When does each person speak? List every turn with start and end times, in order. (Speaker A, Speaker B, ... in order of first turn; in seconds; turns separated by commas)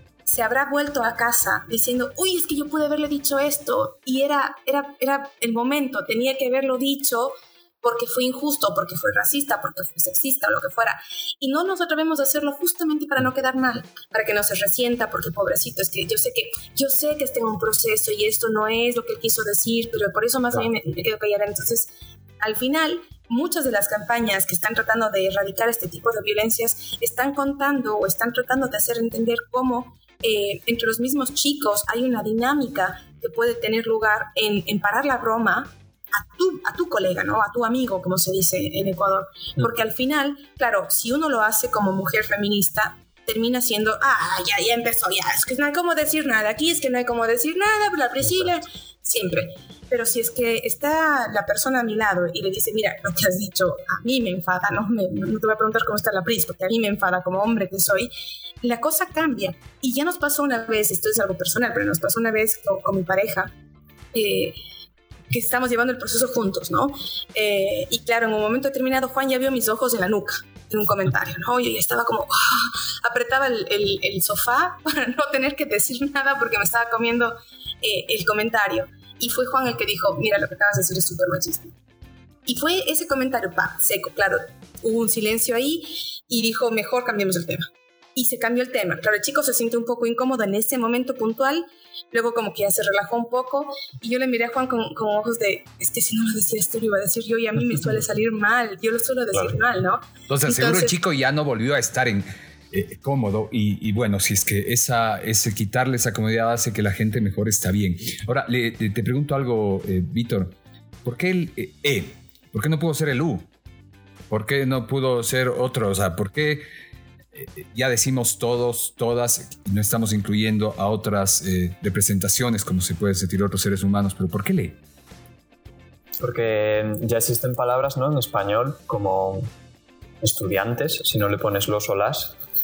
Speaker A: 0.2-58.1, Speaker B: 48.2-48.6, Speaker A: 58.6-63.5, Speaker A: 64.1-64.5, Speaker A: 65.3-81.7, Speaker A: 82.5-100.9, Speaker B: 99.3-99.6, Speaker C: 100.3-113.5, Speaker C: 114.3-116.6, Speaker C: 117.3-124.8, Speaker B: 126.2-129.5, Speaker B: 130.2-132.4